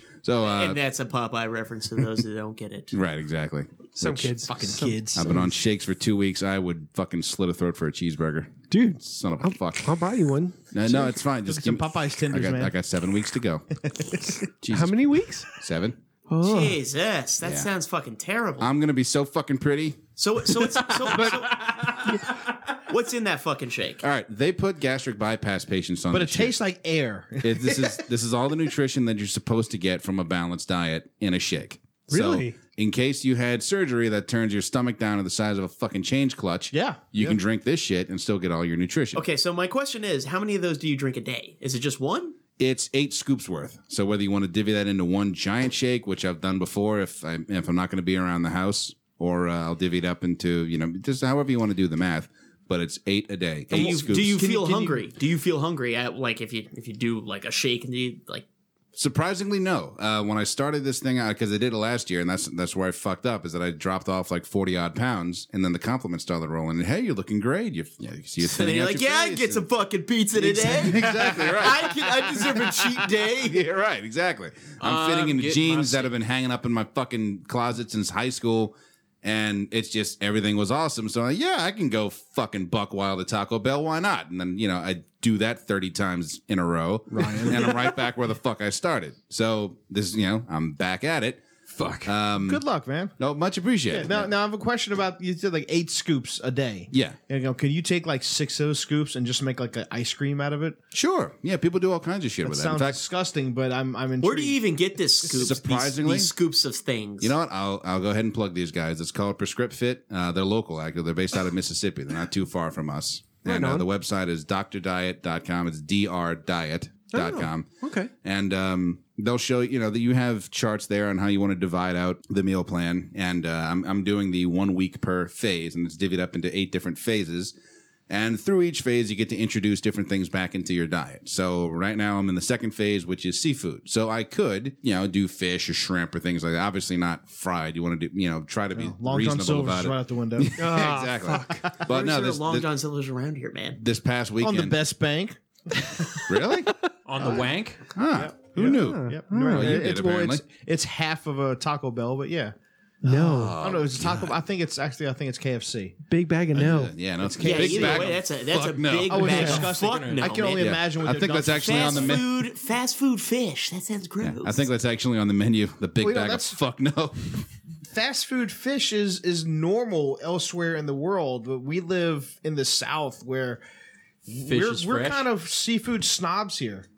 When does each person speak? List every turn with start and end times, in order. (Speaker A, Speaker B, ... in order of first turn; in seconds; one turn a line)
Speaker A: 0.2-0.8
Speaker B: 0.4-3.0
Speaker A: 2.9-4.3
Speaker C: 4.0-5.5
Speaker D: 4.5-5.3
Speaker A: 5.1-10.0
Speaker C: 8.7-10.7
Speaker A: 10.7-13.7
Speaker D: 10.8-12.7
Speaker A: 14.6-16.0
Speaker C: 14.7-15.5
Speaker C: 16.3-16.8
Speaker B: 16.4-18.7
Speaker A: 17.4-17.7
Speaker A: 18.6-20.0
Speaker B: 20.2-21.9
Speaker A: 21.1-21.4
Speaker B: 22.9-24.0
Speaker A: 24.0-26.6
Speaker D: 26.1-28.0
Speaker A: 27.4-39.2
Speaker C: 32.1-32.6
Speaker D: 36.7-37.4
Speaker B: 39.1-42.4
Speaker A: 42.6-54.4
Speaker D: 53.7-55.1
Speaker B: 53.7-58.5
Speaker A: 59.0-69.7
Speaker B: 68.4-73.6
Speaker A: 70.4-91.5
Speaker E: 74.8-76.1
Speaker D: 87.1-87.8
Speaker E: 91.7-92.1
Speaker A: 92.0-92.6
Speaker D: 92.3-93.2
Speaker A: 93.2-94.3
Speaker D: 93.9-100.8
Speaker A: 96.9-97.2
Speaker A: 100.9-103.0
Speaker D: 102.5-104.6
Speaker B: 104.2-107.3
Speaker A: 105.3-106.3
Speaker A: 107.2-117.7
Speaker C: 113.4-113.9
Speaker C: 117.1-118.1
Speaker A: 118.2-127.5
Speaker A: 128.1-142.7
Speaker D: 138.7-140.8
Speaker C: 140.6-141.7
Speaker B: 141.9-143.8
Speaker A: 143.8-144.8
Speaker D: 144.4-146.2
Speaker A: 146.3-146.7
Speaker E: 147.1-147.8
Speaker D: 147.2-147.5
Speaker A: 147.9-150.4
Speaker D: 148.1-156.0
Speaker C: 148.6-149.9
Speaker C: 153.0-153.6
Speaker A: 153.3-154.3
Speaker C: 156.1-157.0
Speaker A: 156.5-159.6
Speaker B: 157.4-160.8
Speaker D: 157.4-158.2
Speaker D: 159.1-162.2
Speaker E: 159.6-160.3
Speaker A: 160.6-162.3
Speaker B: 161.5-164.6
Speaker A: 164.2-167.4
Speaker D: 166.0-166.6
Speaker D: 167.9-173.6
Speaker E: 174.3-175.3
Speaker D: 174.3-176.9